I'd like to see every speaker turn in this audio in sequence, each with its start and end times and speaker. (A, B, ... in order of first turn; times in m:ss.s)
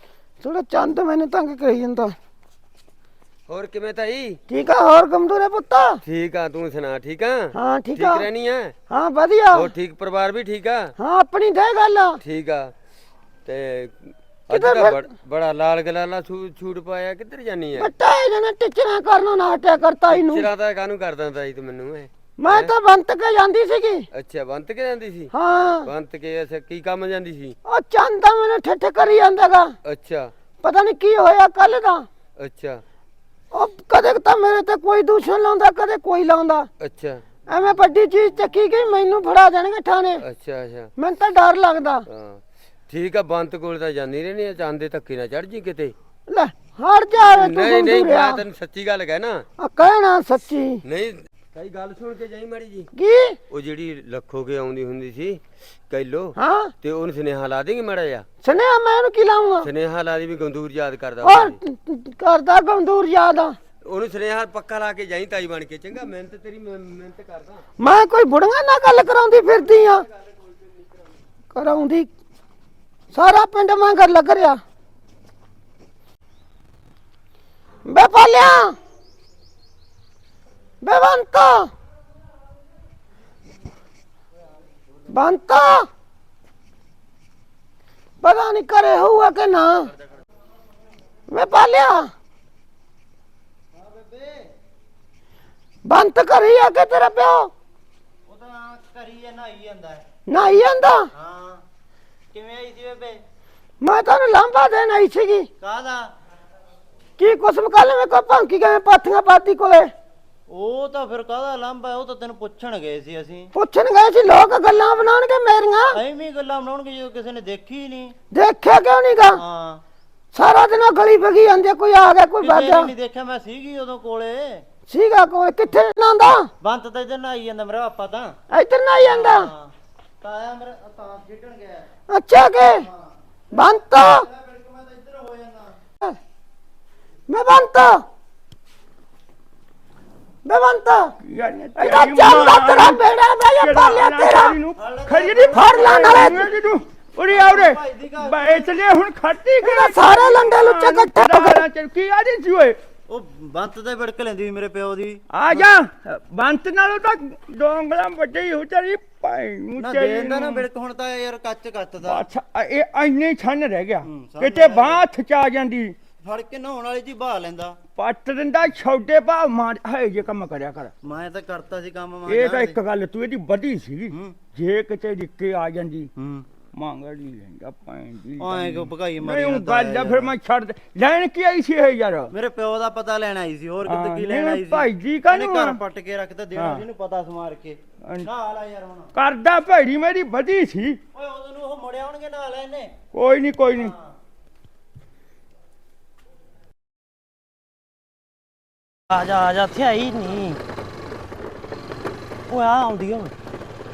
0:00.4-0:02.1 A
0:03.5-0:04.4 B
0:04.5-0:06.0 A
0:06.0-0:08.7 B
0:07.5-0:08.2 A
0:08.9-0:09.7 A
0:09.5-0:10.9 B
0:11.0-0:12.2 A
0:12.2-0:12.7 B
0:13.4-0:17.9 B
0:14.5-0:15.0 A
0:17.8-0:20.5 A
0:20.1-0:22.7 B
0:22.4-0:24.0 A
0:24.1-0:25.3 B
0:25.3-0:25.9 A
0:25.8-0:27.5 B
0:27.6-0:29.7 A
0:29.8-0:30.3 B
0:30.6-0:32.1 A
0:32.4-0:32.8 B
0:33.5-0:36.7 A
0:36.8-0:37.2 B
0:37.5-0:40.2 A
0:40.2-0:40.9 B
0:41.0-0:42.0 A
0:42.1-0:45.9 B
0:46.3-0:48.4 A
0:47.2-0:49.4 B
0:49.6-0:50.8 A
0:50.8-0:52.9 B
0:52.9-0:53.4 A
0:53.5-0:58.2 B
0:56.4-0:56.7 A
0:58.4-0:59.7 A
0:59.6-1:01.6 B
1:01.2-1:03.6 A
1:03.8-1:07.6 B
1:07.8-1:10.0 A
1:11.5-1:12.1 A
1:13.1-1:14.6 A
1:17.8-1:18.7 A
1:20.8-1:21.7 A
1:25.1-1:25.9 A
1:28.2-1:29.9 A
1:31.3-1:32.1 A
1:33.7-1:34.5 C
1:35.8-1:37.5 A
1:38.3-1:40.0 C
1:40.3-1:41.1 A
1:41.1-1:41.6 C
1:42.3-1:43.2 C
1:43.8-1:45.5 A
1:45.6-1:46.1 C
1:47.2-1:49.9 A
1:50.5-1:53.5 C
1:53.5-1:56.0 A
1:55.9-1:58.2 C
1:58.3-1:59.4 A
1:59.3-1:59.8 C
2:00.3-2:02.9 A
2:02.4-2:04.6 C
2:04.9-2:06.5 A
2:06.6-2:08.4 C
2:08.5-2:09.5 A
2:09.0-2:11.9 C
2:12.1-2:12.9 A
2:12.6-2:15.8 C
2:13.5-2:14.2 A
2:17.3-2:18.0 A
2:20.4-2:21.1 A
2:21.2-2:23.0 D
2:21.8-2:24.6 A
2:23.6-2:32.8 D
2:24.8-2:26.6 C
2:25.5-2:26.5 A
2:27.3-2:28.7 C
2:29.6-2:31.6 A
2:33.1-2:35.6 C
2:35.3-2:40.7 D
2:39.8-2:42.2 C
2:42.0-2:46.0 D
2:44.0-2:45.0 C
2:46.2-2:47.8 C
2:48.0-2:50.9 D
2:51.0-2:52.8 C
2:52.3-2:56.1 D
2:54.1-2:54.4 C
2:56.2-2:56.5 C
2:56.7-3:02.3 D
2:58.4-3:00.3 C
3:02.3-3:09.1 C
3:03.8-3:05.8 D
3:06.6-3:06.8 D
3:08.0-3:08.3 D
3:09.1-3:11.0 D
3:11.1-3:13.0 C
3:13.1-3:13.9 D
3:13.7-3:14.2 C
3:19.1-3:20.6 E
3:22.5-3:23.3 E